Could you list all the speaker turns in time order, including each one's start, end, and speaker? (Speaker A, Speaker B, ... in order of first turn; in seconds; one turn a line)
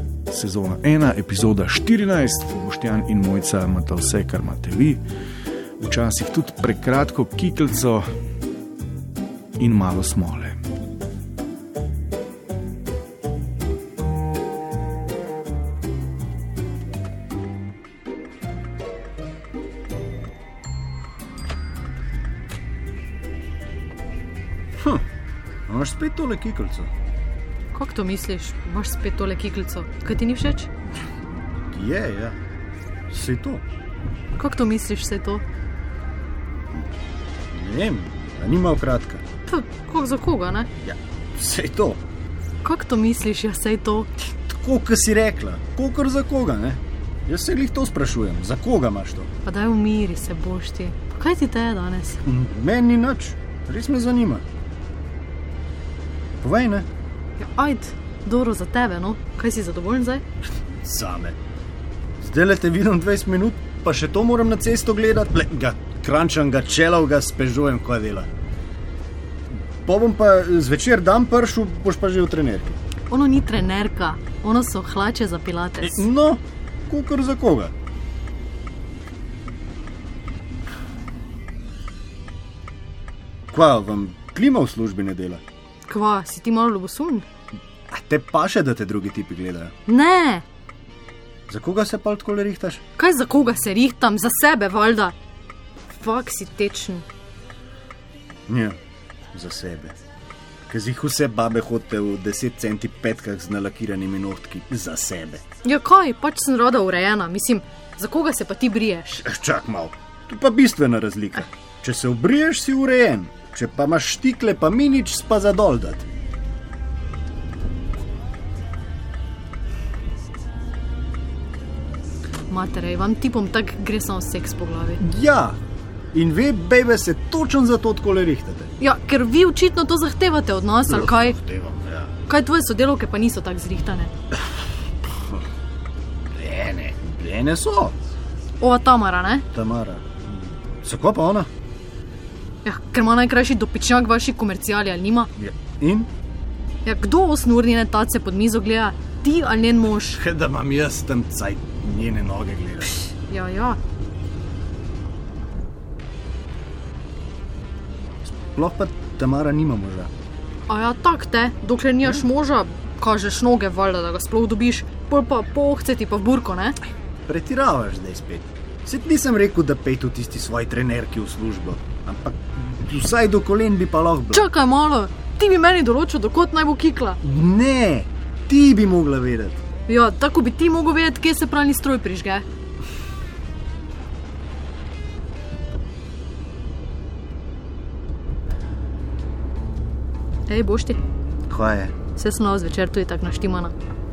Speaker A: 0.3-5.0
Speaker A: 5.8-8.0
Speaker A: 9.6-10.6
Speaker B: 25.7-26.9
Speaker C: 27.7-30.7
Speaker B: 31.7-32.4
Speaker B: 33.1-33.6
Speaker C: 34.4-35.4
Speaker B: 37.5-39.2
Speaker C: 39.5-40.7
Speaker B: 40.8-42.0
Speaker C: 42.6-44.1
Speaker B: 44.4-49.3
Speaker C: 49.4-52.2
Speaker B: 52.2-54.4
Speaker B: 56.4-56.9
Speaker C: 57.4-60.2
Speaker B: 60.8-61.4
Speaker B: 62.2-68.3
Speaker B: 69.5-72.8
Speaker C: 73.1-76.0
Speaker B: 75.8-77.7
Speaker B: 83.5-85.4
Speaker C: 85.9-87.2
Speaker B: 87.9-89.7
Speaker C: 89.9-90.4
Speaker B: 91.5-92.8
Speaker C: 93.0-95.1
Speaker C: 95.9-97.0
Speaker B: 98.5-98.8
Speaker B: 99.3-99.9
Speaker B: 100.7-105.4
Speaker C: 105.6-109.2
Speaker B: 109.2-116.0
Speaker C: 122.5-125.0
Speaker B: 125.0-125.6
Speaker B: 126.1-128.7
Speaker C: 128.8-131.4
Speaker B: 130.9-132.1
Speaker C: 132.3-134.1
Speaker B: 136.3-138.0
Speaker C: 138.6-139.4
Speaker B: 139.5-141.5
Speaker C: 142.6-145.3
Speaker B: 145.4-146.1
Speaker C: 146.8-150.2
Speaker B: 150.1-153.1
Speaker C: 153.3-153.8
Speaker B: 158.4-160.1
Speaker C: 160.7-166.8
Speaker B: 167.2-174.5
Speaker C: 174.3-177.2
Speaker B: 177.2-179.6
Speaker C: 179.9-182.4
Speaker C: 190.5-191.0
Speaker B: 191.5-192.0
Speaker C: 192.1-193.7